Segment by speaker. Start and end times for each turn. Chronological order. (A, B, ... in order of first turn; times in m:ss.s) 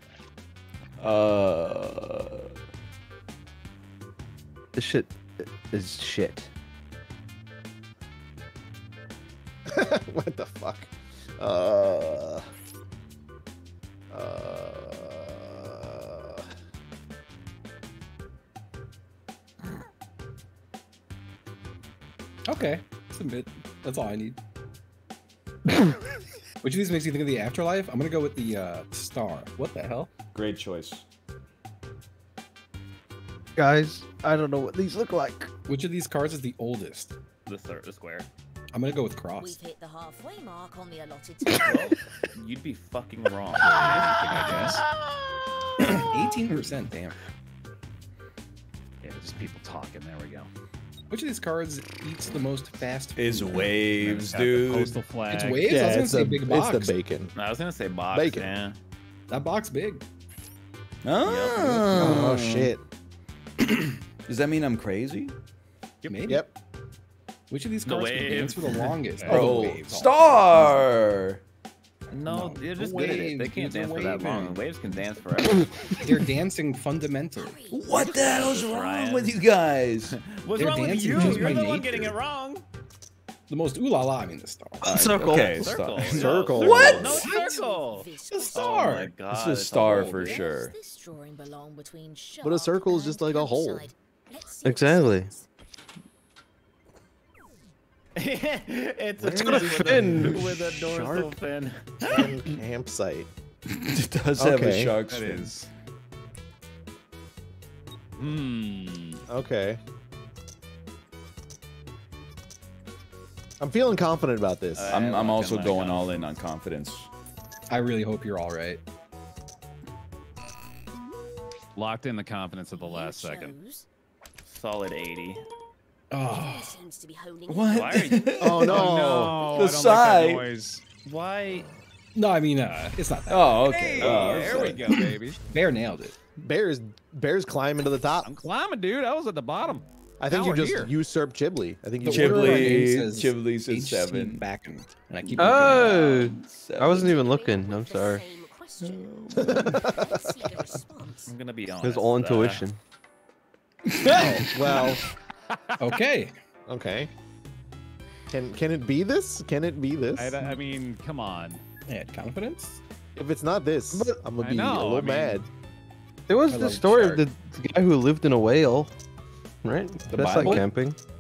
0:01.0-0:02.5 A
0:04.7-0:06.5 B
0:09.7-0:12.4 C
0:14.1-0:16.4 C
0:22.4-0:24.4 D
0:26.6-0:30.1 D
0:30.3-0:31.0 A
0:33.6-0:35.5 B
0:35.7-0:37.1 D
0:37.4-0:38.3 E
0:38.7-0:39.6 D
0:39.4-0:42.0 F
0:41.6-0:44.8 E
0:43.6-0:44.8 G
0:43.8-0:44.6 F
0:45.8-0:47.2 D
0:49.0-0:50.5 G
0:51.1-0:53.7 D
0:53.2-0:55.0 A
0:53.9-0:55.9 G
0:55.3-0:56.9 D
0:55.7-0:57.3 C
0:57.4-0:58.8 E
0:58.1-0:58.5 C
0:59.3-1:00.0 D
1:01.0-1:02.7 A
1:01.2-1:02.1 E
1:01.9-1:02.8 C
1:04.3-1:05.3 A
1:06.0-1:06.4 G
1:06.1-1:06.5 D
1:07.5-1:10.6 D
1:07.8-1:08.9 E
1:09.2-1:09.6 G
1:09.3-1:11.4 A
1:12.1-1:15.7 E
1:12.2-1:14.7 D
1:15.6-1:16.0 F
1:16.0-1:17.6 D
1:17.3-1:18.9 F
1:17.7-1:20.2 A
1:18.1-1:19.4 E
1:20.1-1:22.6 E
1:20.6-1:22.2 D
1:21.2-1:21.5 A
1:23.5-1:24.8 D
1:24.8-1:25.6 B
1:24.8-1:27.3 A
1:25.3-1:30.5 E
1:26.1-1:27.2 C
1:26.3-1:29.0 F
1:28.3-1:29.1 D
1:29.3-1:30.7 A
1:29.8-1:35.5 F
1:32.4-1:33.9 C
1:34.6-1:35.3 B
1:38.1-1:42.4 E
1:39.2-1:40.6 A
1:39.3-1:40.4 B
1:40.3-1:41.4 C
1:42.0-1:43.3 C
1:43.7-1:45.5 A
1:44.4-1:45.0 C
1:45.0-1:45.7 G
1:48.2-1:49.2 G
1:49.3-1:49.8 C
1:53.6-1:55.0 C
1:54.7-1:56.3 E
1:54.9-1:57.1 A
1:57.7-1:58.8 D
2:01.8-2:03.6 G
2:02.7-2:03.9 F
2:04.4-2:05.4 E
2:06.1-2:06.8 D
2:06.2-2:08.5 F
2:07.5-2:10.4 A
2:07.7-2:08.3 E
2:08.4-2:09.5 C
2:08.6-2:10.8 G
2:11.0-2:11.7 E
2:12.1-2:16.2 D
2:13.3-2:14.9 A
2:13.6-2:15.4 G
2:14.0-2:14.7 E
2:16.4-2:18.3 C
2:18.2-2:20.9 G
2:20.2-2:22.9 C
2:22.0-2:25.9 D
2:22.0-2:24.4 A
2:25.2-2:27.2 A
2:25.4-2:28.2 B
2:26.8-2:31.3 F
2:28.8-2:30.0 A
2:29.4-2:30.8 C
2:31.3-2:32.6 E
2:31.8-2:32.8 B
2:34.0-2:34.8 A
2:34.0-2:35.0 C
2:34.1-2:34.4 D
2:35.5-2:35.9 G
2:35.8-2:36.3 D
2:36.7-2:37.1 C
2:38.3-2:40.4 C
2:40.2-2:41.6 G
2:41.9-2:42.8 D
2:43.1-2:45.5 C
2:43.9-2:44.2 B
2:44.4-2:45.4 G
2:46.3-2:48.9 B
2:46.5-2:47.2 D
2:49.6-2:51.0 B
2:50.1-2:50.6 A
2:50.3-2:50.6 D